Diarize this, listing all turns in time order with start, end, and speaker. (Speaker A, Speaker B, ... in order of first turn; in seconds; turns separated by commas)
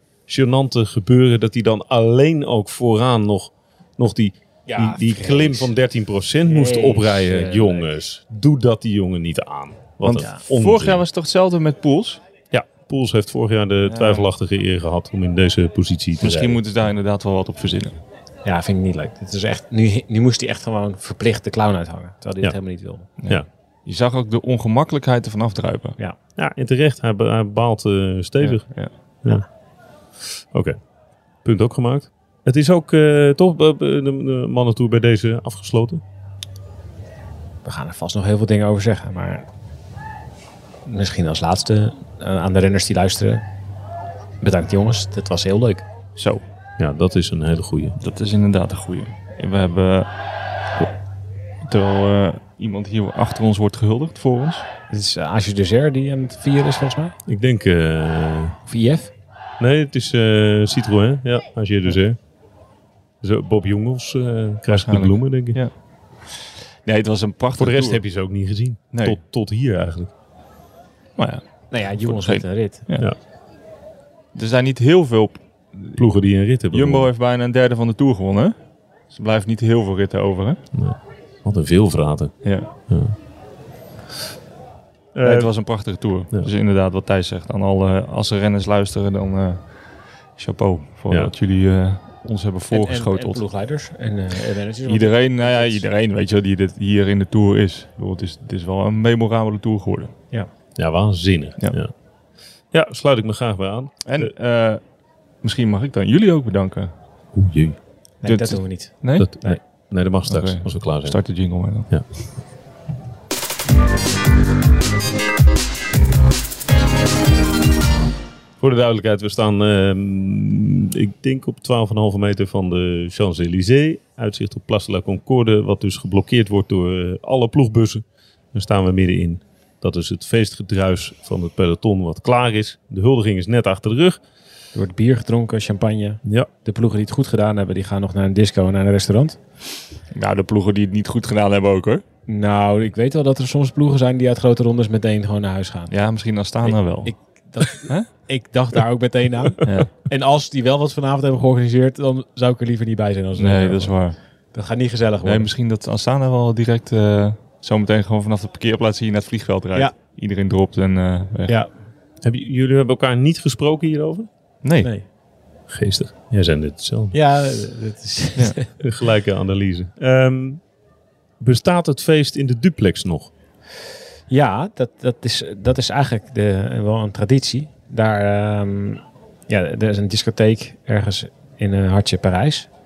Speaker A: 0.3-11.0, Speaker B: 4.7-5.7, Speaker B: 6.5-7.9, Speaker C: 10.1-12.2, Speaker B: 10.1-10.4, Speaker A: 12.5-16.6, Speaker C: 13.9-14.3, Speaker C: 16.2-17.9, Speaker B: 18.4-23.1, Speaker C: 23.2-26.0, Speaker A: 26.4-28.7, Speaker C: 28.4-28.9, Speaker A: 31.4-36.0, Speaker B: 37.6-39.5, Speaker B: 40.9-43.4, Speaker B: 44.4-45.8, Speaker C: 46.1-46.4, Speaker A: 46.8-48.0, Speaker C: 48.0-50.1, Speaker C: 51.6-54.6, Speaker B: 54.9-57.1, Speaker A: 57.3-58.6, Speaker B: 58.7-59.1, Speaker A: 59.6-62.2, Speaker A: 63.2-65.6, Speaker C: 64.7-65.7, Speaker C: 66.8-68.0, Speaker A: 67.6-70.1, Speaker C: 68.9-69.2, Speaker C: 71.2-73.1, Speaker B: 71.7-72.8, Speaker C: 74.3-76.0, Speaker A: 76.0-77.0, Speaker C: 76.7-78.5, Speaker C: 79.1-80.6, Speaker A: 80.7-83.1, Speaker C: 82.4-82.7, Speaker A: 85.1-85.5, Speaker C: 85.2-89.6, Speaker C: 90.4-93.4, Speaker B: 92.7-95.8, Speaker C: 94.8-100.1, Speaker A: 100.8-101.9, Speaker A: 102.7-104.3, Speaker C: 104.0-104.8, Speaker C: 105.4-106.9, Speaker A: 107.3-107.8, Speaker B: 108.2-109.6, Speaker C: 108.2-109.3, Speaker A: 109.2-111.2, Speaker C: 110.3-111.9, Speaker A: 118.6-134.2, Speaker B: 134.7-139.4, Speaker C: 140.1-142.0, Speaker B: 142.3-145.9, Speaker C: 145.9-147.1, Speaker B: 146.7-153.9, Speaker C: 149.6-149.9, Speaker C: 153.3-154.2, Speaker B: 154.5-155.5, Speaker C: 155.2-161.5, Speaker A: 162.2-164.3, Speaker C: 164.6-164.9, Speaker A: 165.7-167.1, Speaker B: 167.1-168.8, Speaker A: 168.8-170.6, Speaker A: 171.4-173.3, Speaker B: 174.3-182.7